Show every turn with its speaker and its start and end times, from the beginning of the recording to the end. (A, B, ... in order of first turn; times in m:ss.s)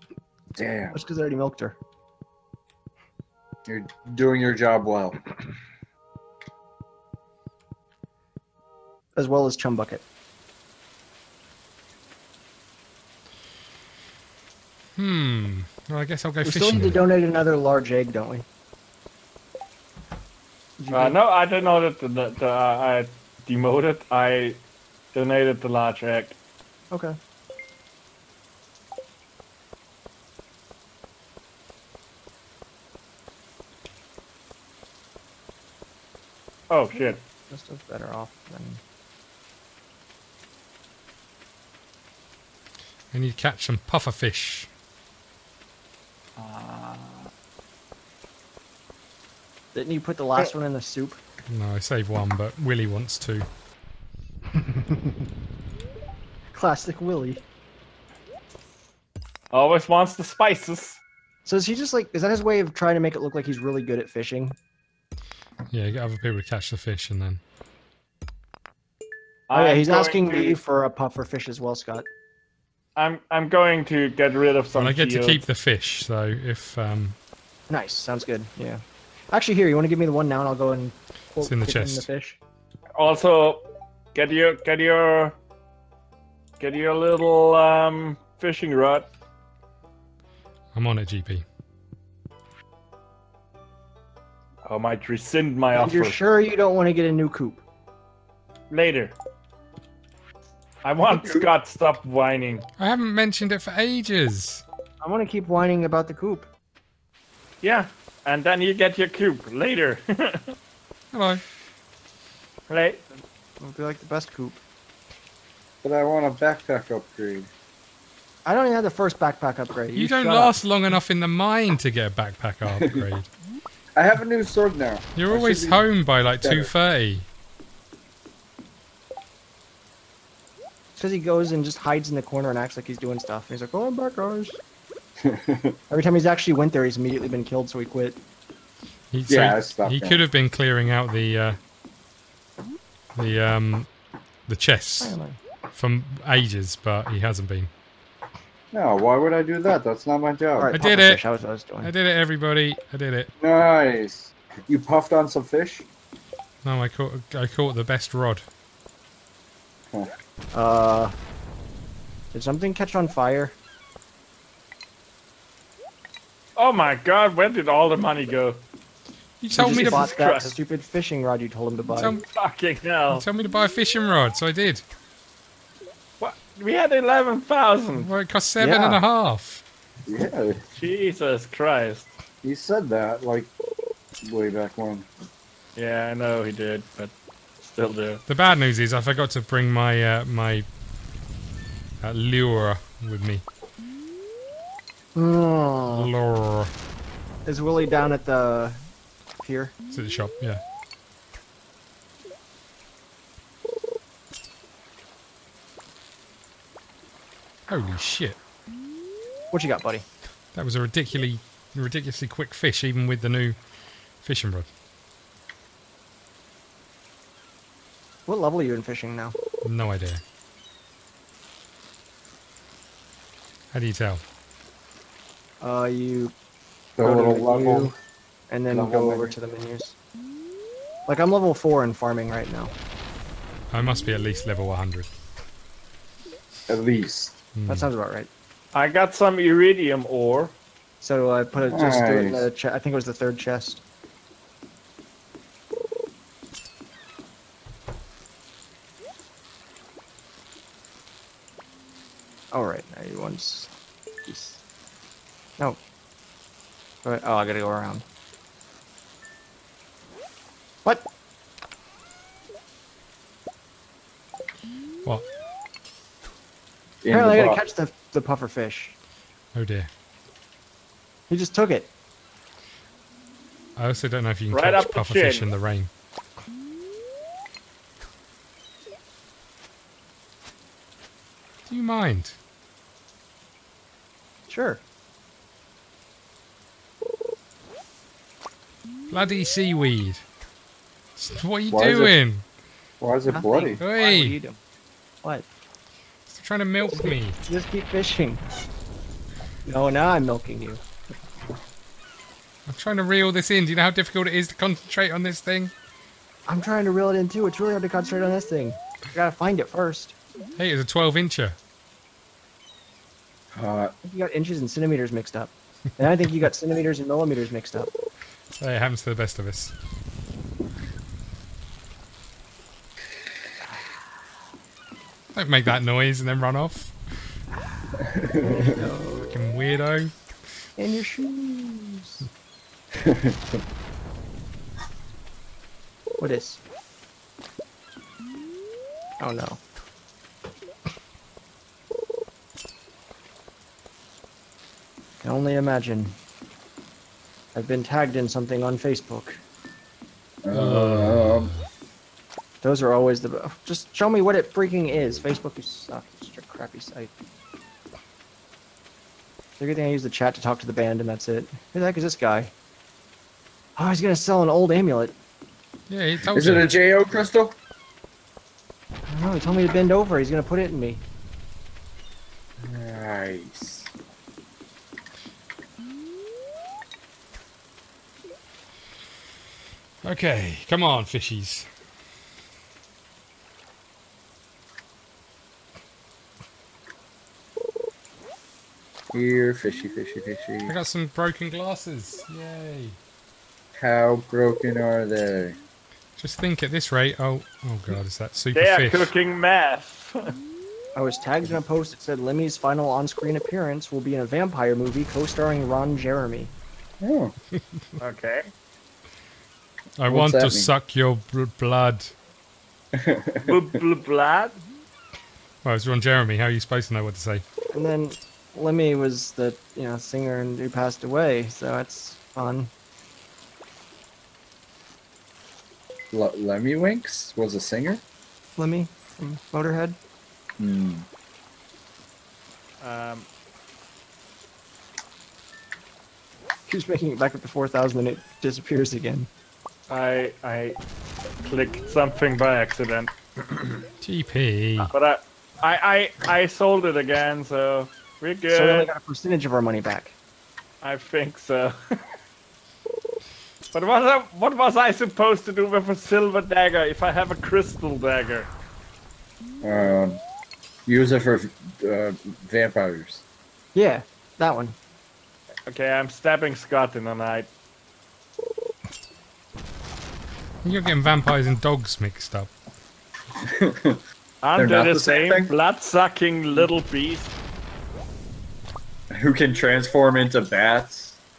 0:00.5-0:01.0 A
0:00.9-0:01.8 B
0:03.6-0:05.2 A
0:09.2-0:10.0 B
0:15.0-0:17.0 C
0:16.4-0:18.4 B
0:20.8-0:21.2 B
0:20.9-0:24.6 D
0:25.1-0:26.4 D
0:26.9-0:27.2 B
0:36.7-0:37.2 D
0:37.0-0:38.8 B
0:43.1-0:44.7 C
0:46.4-0:47.3 D
0:49.7-0:51.2 B
0:51.5-0:53.5 C
0:54.5-0:55.3 B
0:56.5-0:57.4 B
0:59.5-1:01.0 D
1:01.4-1:04.6 B
1:05.7-1:07.4 C
1:09.5-1:10.6 D
1:09.5-1:12.0 B
1:13.0-1:15.4 D
1:14.8-1:17.2 C
1:17.7-1:22.4 B
1:21.4-1:22.1 C
1:23.0-1:25.4 D
1:26.6-1:29.1 D
1:30.7-1:31.4 C
1:34.6-1:36.2 D
1:35.7-1:37.6 B
1:38.7-1:39.1 D
1:40.8-1:42.7 D
1:41.2-1:41.5 B
1:42.8-1:44.6 C
1:45.0-1:46.5 B
1:47.6-1:50.6 D
1:51.1-1:51.4 C
1:52.7-1:53.0 D
1:53.6-1:54.6 B
1:55.8-1:57.5 A
1:58.4-2:00.6 B
1:59.9-2:03.3 C
2:04.0-2:05.8 A
2:05.1-2:07.3 C
2:06.4-2:06.7 A
2:11.0-2:14.6 B
2:15.2-2:15.8 A
2:15.9-2:18.2 B
2:19.1-2:21.6 C
2:19.3-2:20.2 A
2:23.1-2:23.9 C
2:24.5-2:25.2 C
2:25.0-2:25.4 B
2:25.7-2:27.7 C
2:28.7-2:30.8 A
2:30.6-2:31.9 B
2:30.8-2:31.2 C
2:31.8-2:33.3 C
2:33.4-2:35.8 A
2:36.6-2:38.4 C
2:40.5-2:41.1 B
2:42.3-2:43.6 B
2:46.6-2:48.6 D
2:49.4-2:50.1 C
2:49.5-2:52.1 B
2:49.6-2:50.6 D
2:52.0-2:52.2 C
2:52.2-2:53.2 D
2:53.1-2:54.8 C
2:56.2-2:58.1 D
2:58.0-2:59.6 C
2:58.6-2:59.0 B
3:00.1-3:00.6 A
3:00.8-3:02.2 D
3:02.4-3:03.5 A
3:04.2-3:05.1 A
3:05.8-3:08.2 D
3:08.3-3:10.6 C
3:12.0-3:13.4 C
3:15.1-3:16.1 B
3:15.9-3:16.7 C
3:17.4-3:18.8 B
3:19.4-3:19.7 B
3:19.9-3:20.6 C
3:27.7-3:28.4 C
3:29.5-3:30.0 B
3:30.5-3:33.6 C
3:34.2-3:34.7 C
3:38.3-3:39.4 B
3:39.6-3:40.2 C
3:43.7-3:44.2 C
3:45.6-3:46.3 B
3:47.0-3:47.9 A
3:47.0-3:47.9 B
3:48.5-3:49.9 B
3:48.7-3:49.3 A
3:51.1-3:52.7 B
3:53.7-3:55.1 C
3:56.7-3:57.4 A
3:57.6-3:57.9 C
3:57.6-3:58.3 B
3:58.7-4:00.5 D
4:01.0-4:03.8 B
4:01.7-4:02.5 A
4:12.5-4:13.7 B
4:14.2-4:14.6 B
4:17.0-4:18.0 B
4:27.0-4:27.6 A
4:27.1-4:28.9 B
4:29.5-4:29.9 C
4:31.3-4:31.9 B
4:33.8-4:35.9 C
4:34.5-4:35.5 D
4:41.6-4:42.4 C
4:44.5-4:44.8 B
4:49.1-4:50.2 C
4:51.2-4:52.4 C
4:51.7-4:52.1 A
4:53.0-4:53.8 A
4:53.3-4:54.6 B
4:53.8-4:54.4 C
4:56.3-4:57.4 C
4:56.9-4:58.4 B
4:59.6-5:00.8 B
5:02.6-5:05.7 C
5:06.5-5:10.2 B
5:10.6-5:11.6 C
5:13.5-5:13.9 A
5:14.0-5:17.9 B
5:18.5-5:19.7 C
5:25.3-5:26.9 C
5:28.0-5:28.8 A
5:28.4-5:29.3 B
5:29.2-5:30.1 C
5:30.8-5:32.2 B
5:33.0-5:33.6 A
5:36.2-5:36.6 B
5:39.2-5:39.6 B
5:45.2-5:46.2 B
5:47.5-5:49.4 B
5:50.4-5:51.5 A
5:50.5-5:51.6 C
5:52.6-5:57.1 B
5:59.6-6:02.5 B
6:03.8-6:05.1 B
6:05.9-6:06.8 C
6:06.3-6:07.6 A
6:09.1-6:11.0 B
6:12.6-6:13.9 A
6:20.0-6:21.7 C
6:29.1-6:30.7 A
6:30.7-6:33.0 C
6:33.8-6:35.6 A
6:36.2-6:39.1 C
6:38.5-6:40.4 D
6:41.0-6:46.5 B
6:47.0-6:47.3 A
6:48.0-6:48.5 D
6:50.0-6:52.1 C
6:50.1-6:50.7 A
6:52.9-6:53.6 A
6:53.4-6:54.6 D
6:55.6-6:57.4 C
6:57.7-7:02.7 B
7:06.1-7:08.0 A
7:08.6-7:10.0 B
7:10.6-7:11.1 A
7:12.8-7:13.3 D
7:16.7-7:19.3 B
7:19.9-7:20.8 D
7:21.4-7:23.8 D
7:24.0-7:24.9 C
7:24.8-7:28.9 D
7:28.5-7:30.1 B
7:30.8-7:31.8 D
7:33.7-7:38.5 D
7:39.6-7:40.2 A
7:40.9-7:43.2 A
7:43.8-7:44.8 B
7:45.7-7:47.5 D
7:50.6-7:52.5 C
7:53.4-7:54.0 A
7:54.4-7:57.4 D
7:54.6-7:55.5 A
7:59.1-8:01.2 A